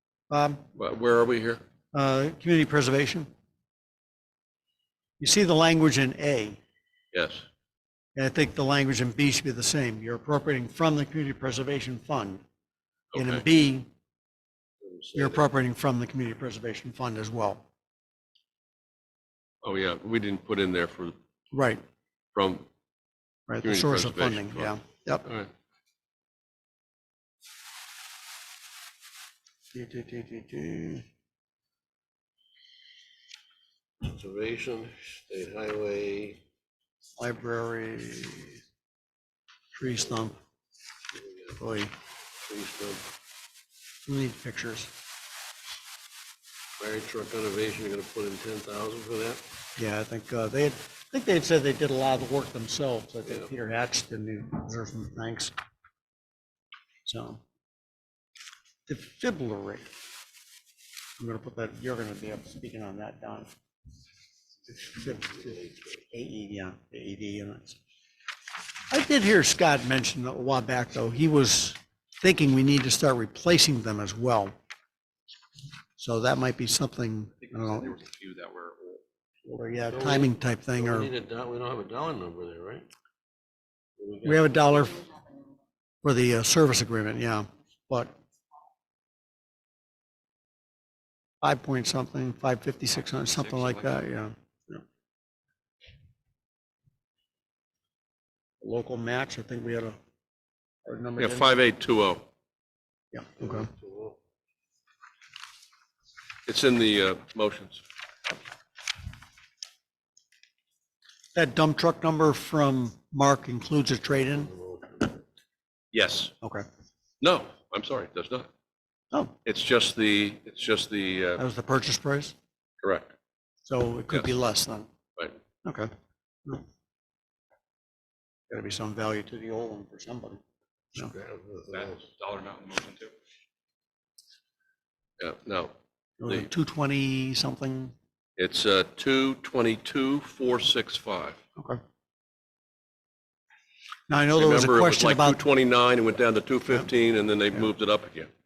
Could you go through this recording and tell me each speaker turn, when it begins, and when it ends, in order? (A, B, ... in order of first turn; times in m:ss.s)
0:00.3-0:00.6 A
0:00.8-0:01.6 B
0:01.9-0:03.3 A
0:05.2-0:06.6 A
0:07.1-0:07.5 B
0:08.2-0:12.4 A
0:13.1-0:13.4 B
0:13.1-0:13.9 A
0:14.8-0:15.5 C
0:15.2-0:17.6 A
0:19.6-0:21.2 B
0:21.5-0:21.8 A
0:22.3-0:22.7 B
0:23.5-0:25.2 A
0:23.6-0:25.5 B
0:29.7-0:31.0 A
0:34.0-0:36.4 C
0:37.2-0:38.6 A
0:39.7-0:40.4 A
0:41.1-0:41.8 C
0:41.6-0:41.9 A
0:42.5-0:43.1 C
0:44.1-0:44.9 A
0:46.8-0:49.4 C
0:49.8-0:55.5 A
0:57.1-0:57.4 A
0:58.9-0:59.9 A
1:01.2-1:03.5 A
1:04.7-1:07.8 A
1:05.5-1:05.8 C
1:08.9-1:14.5 A
1:16.0-1:18.0 A
1:17.4-1:19.0 D
1:19.4-1:21.1 A
1:19.9-1:22.9 C
1:24.0-1:24.9 C
1:24.2-1:25.2 A
1:26.0-1:28.1 A
1:31.4-1:34.8 A
1:38.6-1:40.0 A
1:40.8-1:41.6 A
1:41.2-1:42.3 B
1:43.1-1:43.7 A
1:43.4-1:44.2 C
1:46.5-1:47.8 B
1:51.3-1:54.5 A
1:54.2-1:55.2 C
1:55.9-1:56.3 B
1:57.2-1:58.5 B
1:59.4-2:01.4 B
2:01.4-2:02.3 A
2:02.8-2:03.1 B
2:03.6-2:04.9 A
2:05.6-2:05.9 A
2:08.5-2:10.4 A
2:11.0-2:12.1 C
2:11.7-2:13.2 D
2:15.2-2:15.7 B
2:16.2-2:17.9 A
2:18.4-2:21.4 B
2:24.1-2:25.4 A
2:24.3-2:28.3 B